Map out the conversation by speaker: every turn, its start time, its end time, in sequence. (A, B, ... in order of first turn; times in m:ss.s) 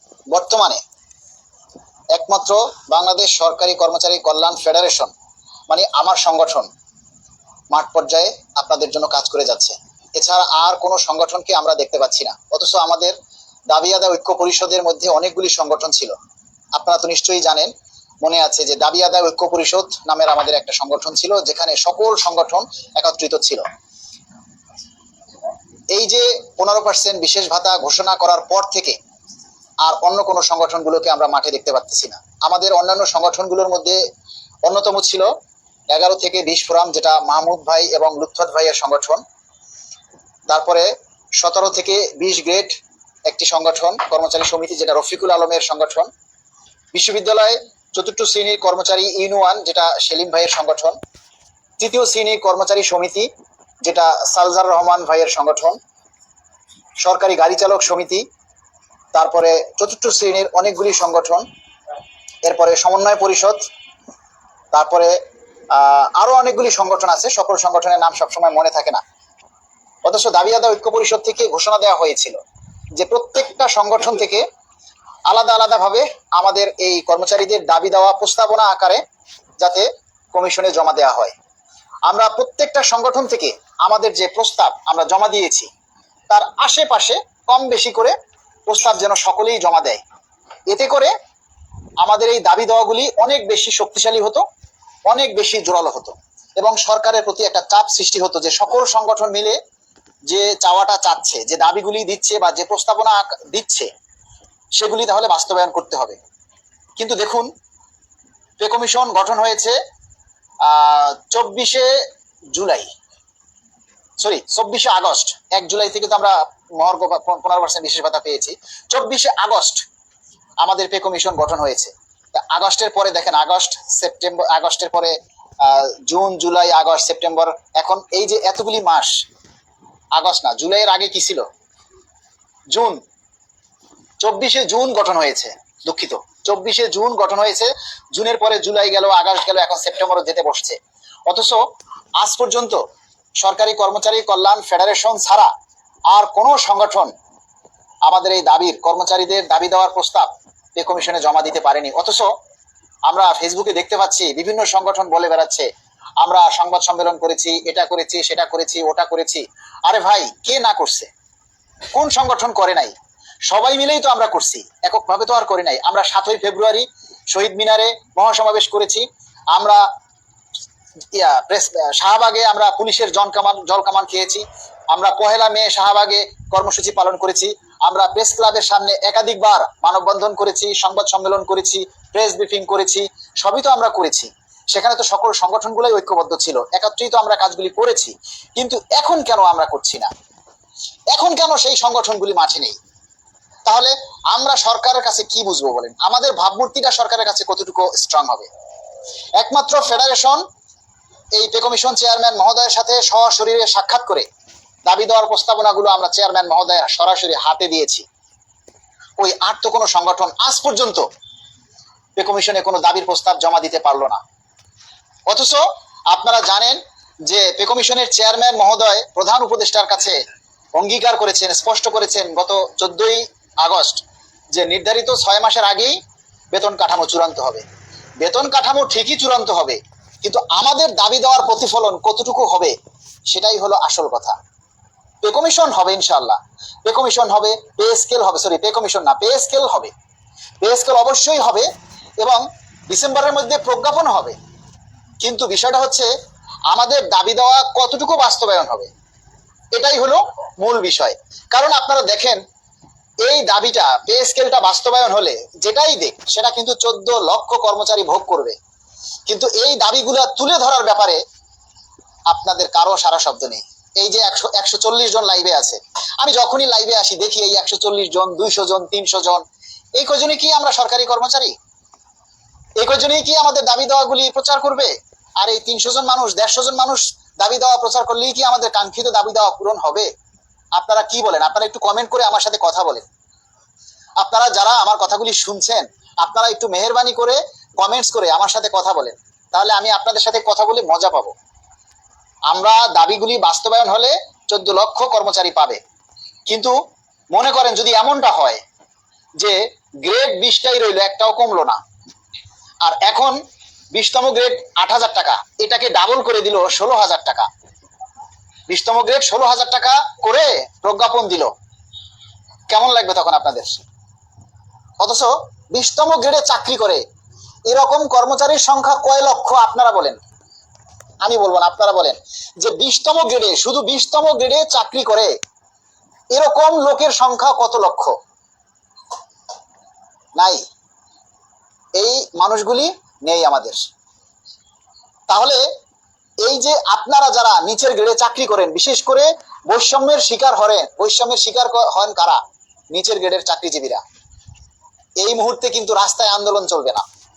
0:00.3-0:00.8 A
0:02.1-0:05.1 A
0:05.7-0:06.7 A
0:07.7-0:13.2 A
0:13.7-0:16.1 A
0:16.7-0:17.7 A
0:18.2-0:23.6 A
0:25.9-0:29.0 A
0:29.8-0:34.0 A
0:34.6-0:35.3 A
0:35.9-0:39.2 A
0:40.5-0:46.1 A
0:46.9-0:51.0 A
0:51.8-0:53.3 A
0:53.8-0:55.8 A
0:57.0-0:58.2 A
0:59.1-1:01.4 A
1:02.4-1:03.6 A
1:04.7-1:05.1 A
1:05.7-1:09.0 A
1:10.0-1:12.4 A
1:13.0-1:14.4 A
1:15.3-1:19.0 A
1:19.6-1:21.3 A
1:22.1-1:25.7 A
1:26.3-1:28.1 A
1:28.7-1:30.0 A
1:30.7-1:31.1 A
1:32.0-1:34.4 A
1:35.1-1:39.6 A
1:40.3-1:43.9 A
1:44.8-1:46.2 A
1:47.0-1:47.5 A
1:48.6-1:49.8 A
1:50.6-1:52.0 A
1:52.5-1:52.9 A
1:54.2-1:59.8 A
2:00.6-2:09.1 A
2:10.1-2:11.4 A
2:12.7-2:13.0 A
2:14.2-2:21.6 A
2:22.2-2:22.8 A
2:23.4-2:25.5 A
2:26.1-2:27.1 A
2:28.1-2:32.3 A
2:33.1-2:35.7 A
2:36.2-2:41.1 A
2:41.9-2:42.9 A
2:43.5-2:49.8 A
2:51.1-3:10.1 A
3:11.1-3:12.8 A
3:13.6-3:18.5 A
3:19.4-3:20.4 A
3:21.4-3:24.2 A
3:24.9-3:28.0 A
3:29.2-3:31.0 A
3:32.2-3:34.2 A
3:35.3-3:40.2 A
3:40.8-3:46.0 A
3:46.5-3:47.6 A
3:48.2-3:52.7 A
3:53.3-3:54.4 A
3:55.2-3:59.9 A
4:00.6-4:01.7 A
4:02.2-4:04.4 A
4:05.2-4:06.1 A
4:06.7-4:08.9 A
4:09.7-4:12.4 A
4:13.2-4:18.6 A
4:19.3-4:21.2 A
4:22.3-4:29.4 A
4:30.0-4:31.5 A
4:32.8-4:40.1 A
4:40.7-4:43.0 A
4:44.2-4:51.3 A
4:52.5-4:55.8 A
4:56.5-4:56.7 A
4:57.3-4:58.6 A
4:59.4-5:01.8 A
5:02.8-5:03.4 A
5:03.9-5:07.5 A
5:08.7-5:11.5 A
5:12.7-5:13.8 A
5:15.0-5:17.0 A
5:17.7-5:20.2 A
5:21.2-5:25.3 A
5:26.3-5:28.1 A
5:30.4-5:30.6 A
5:32.0-5:33.8 A
5:35.3-5:35.6 A
5:36.4-5:44.0 A
5:45.2-5:47.0 A